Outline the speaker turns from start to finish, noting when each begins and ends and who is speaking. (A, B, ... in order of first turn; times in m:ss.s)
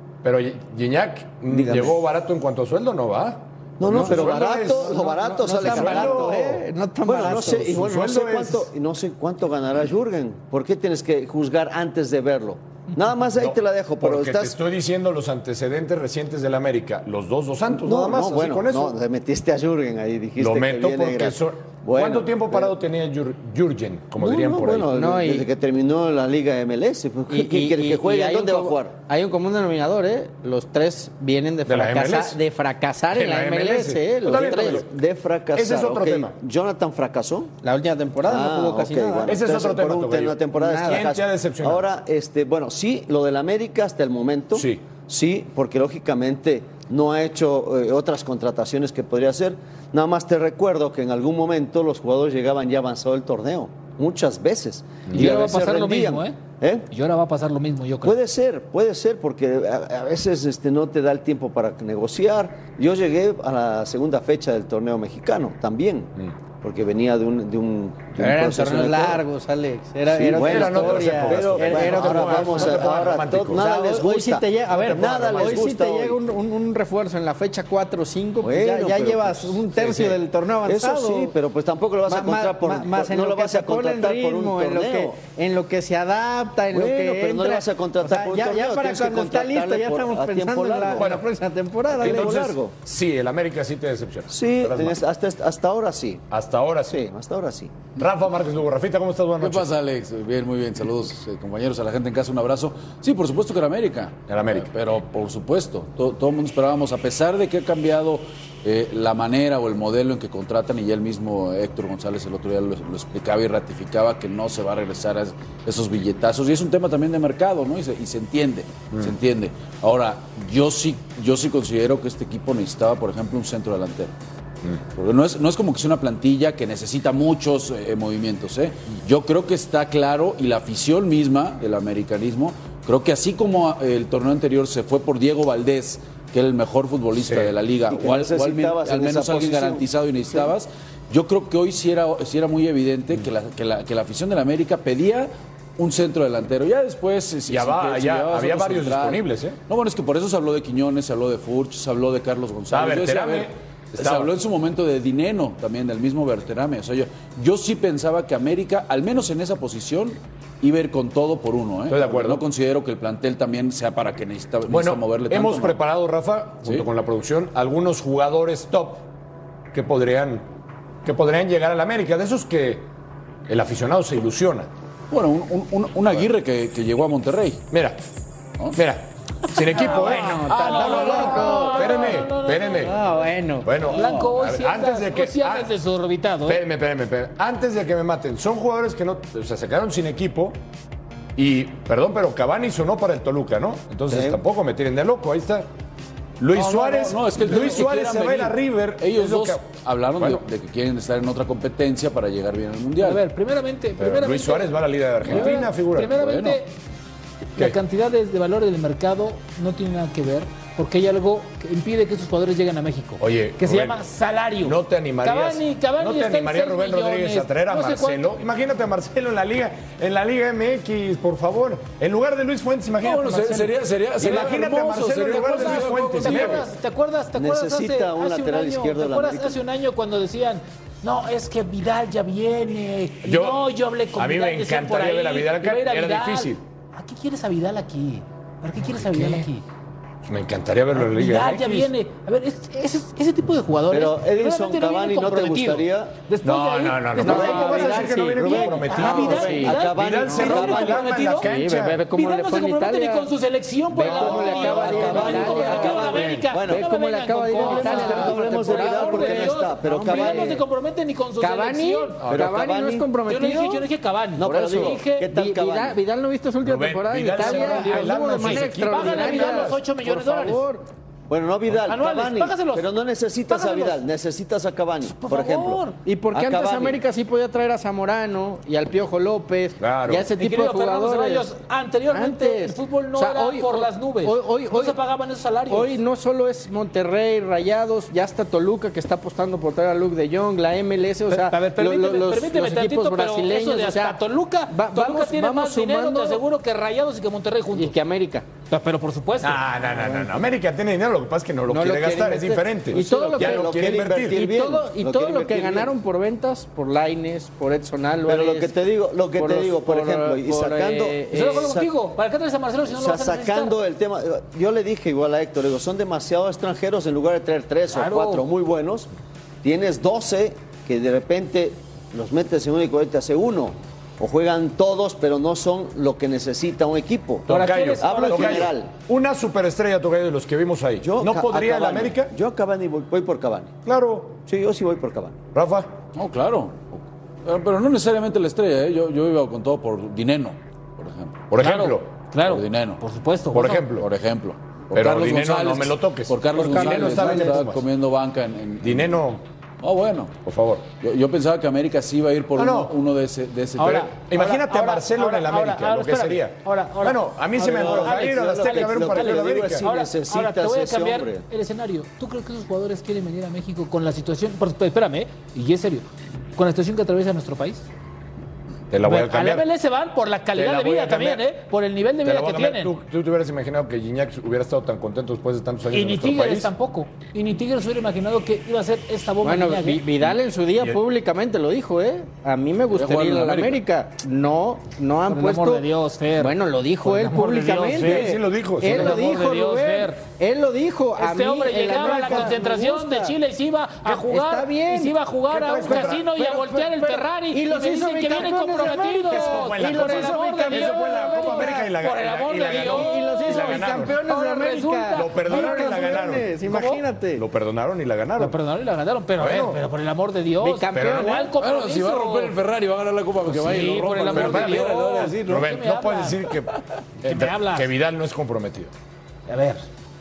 0:00.2-0:06.4 A
0:01.5-0:02.0 B
0:03.8-0:14.6 B
0:03.9-0:07.9 C
0:07.6-0:08.6 A
0:13.4-0:19.0 A
0:17.7-0:22.8 B
0:20.4-0:24.9 A
0:24.2-0:29.0 B
0:24.9-0:25.5 C
0:27.3-0:34.8 C
0:31.7-0:32.4 A
0:33.1-0:34.9 A
0:34.3-0:37.5 B
0:35.6-0:36.3 A
0:37.6-0:39.4 C
0:38.2-0:56.9 B
0:39.3-0:41.9 A
0:40.6-0:41.1 C
0:44.6-0:44.8 A
0:55.1-0:56.4 D
0:56.9-0:58.2 D
0:58.0-1:09.2 B
1:08.2-1:21.3 C
1:10.1-1:16.2 B
1:10.2-1:13.7 A
1:14.7-1:15.7 A
1:18.4-1:25.2 B
1:22.1-1:32.5 C
1:26.7-1:31.2 B
1:31.0-1:31.3 A
1:31.9-1:32.8 B
1:32.0-1:35.0 A
1:34.3-1:36.2 B
1:36.3-1:37.0 A
1:36.9-1:37.8 B
1:38.0-1:39.7 A
1:39.4-2:04.1 E
1:44.3-1:44.7 A
2:05.0-2:45.8 E
2:17.2-2:17.5 A
2:17.9-2:20.5 B
2:27.5-2:29.6 A
2:32.7-2:34.3 A
2:41.9-2:42.4 A
2:44.7-2:49.1 A
2:49.7-2:50.5 A
2:51.0-2:52.9 A
2:53.5-2:54.7 A
2:55.1-2:57.6 E
2:57.7-2:58.0 A
2:58.7-3:03.0 A
2:59.7-3:02.9 D
3:00.1-3:02.2 C
3:00.5-3:01.5 E
3:02.8-3:03.7 C
3:03.6-3:05.7 A
3:03.9-3:06.6 D
3:06.5-3:10.6 A
3:11.4-3:15.7 A
3:14.1-3:14.4 B
3:16.4-3:19.6 A
3:16.5-3:23.2 E
3:20.2-3:20.4 A
3:23.0-3:26.7 D
3:24.0-3:26.2 A
3:25.3-3:26.6 E
3:27.6-3:38.3 D
3:33.2-3:34.0 A
3:34.6-3:46.6 A
3:43.0-3:46.6 E
3:45.3-3:59.6 D
3:47.3-3:49.6 B
3:53.2-3:56.6 A
3:59.0-3:59.4 A
4:00.2-4:01.9 A
4:00.9-4:11.5 D
4:03.9-4:06.2 B
4:06.4-4:12.0 A
4:07.2-4:09.8 C
4:08.4-4:11.1 B
4:10.3-4:10.7 C
4:11.2-4:13.3 C
4:12.1-4:22.2 D
4:13.9-4:20.6 C
4:14.1-4:16.9 B
4:14.2-4:16.5 A
4:17.6-4:20.6 B
4:21.4-4:23.9 C
4:22.2-4:22.5 A
4:22.3-4:23.1 B
4:23.3-4:25.3 D
4:24.4-4:26.0 B
4:24.7-4:30.8 C
4:26.6-4:29.8 A
4:27.4-4:30.6 D
4:31.3-4:37.0 B
4:31.9-4:32.9 D
4:33.5-4:34.0 D
4:35.1-4:36.0 D
4:36.0-4:41.5 C
4:39.8-4:40.3 A
4:40.4-4:46.0 D
4:42.1-4:45.0 C
4:45.7-4:56.4 C
4:51.3-4:57.9 D
4:57.7-4:58.5 C
4:58.7-4:59.6 D
4:59.4-5:04.4 A
4:59.9-5:00.3 C
5:01.7-5:08.8 C
5:03.1-5:05.9 B
5:08.2-5:11.9 B
5:09.3-5:11.7 C
5:11.3-5:13.8 D
5:12.9-5:19.1 B
5:17.9-5:18.4 D
5:19.6-5:28.9 B
5:27.5-5:32.3 A
5:27.5-5:28.7 D
5:31.0-5:33.7 B
5:33.8-5:34.4 A
5:34.5-5:35.4 B
5:35.5-5:35.9 A
5:36.2-5:41.4 E
5:41.5-5:42.2 A
5:41.6-5:43.9 D
5:42.4-5:43.0 E
5:43.5-5:44.1 A
5:44.0-5:49.2 E
5:44.9-5:47.8 A
5:48.8-5:49.4 A
5:49.8-5:50.4 E
5:50.4-5:50.9 A
5:51.0-5:54.1 E
5:52.6-5:52.9 A
5:53.8-6:07.9 D
5:53.8-5:59.8 A
5:57.6-6:01.4 B
6:08.9-6:09.7 A
6:09.0-6:12.9 D
6:10.5-6:11.4 A
6:12.2-6:16.7 A
6:15.9-6:20.1 D
6:19.4-6:25.9 C
6:22.9-6:23.8 E
6:25.3-6:30.2 D
6:26.4-6:33.4 C
6:27.9-6:29.2 A
6:31.2-6:46.1 D
6:31.9-6:32.6 A
6:34.1-6:35.2 C
6:35.5-6:36.3 A
6:35.8-6:41.9 C
6:39.3-6:44.2 A
6:42.7-6:47.4 C
6:45.1-6:46.7 A
6:46.7-6:47.0 D
6:47.4-6:48.6 A
6:48.4-6:52.6 D
6:49.4-6:49.8 A
6:50.6-6:51.5 C
6:50.9-6:51.5 A
6:51.6-6:55.7 E
6:53.5-6:56.5 D
6:54.2-6:56.7 A
6:57.2-6:58.9 A
6:57.2-6:57.9 D
6:59.5-6:59.9 D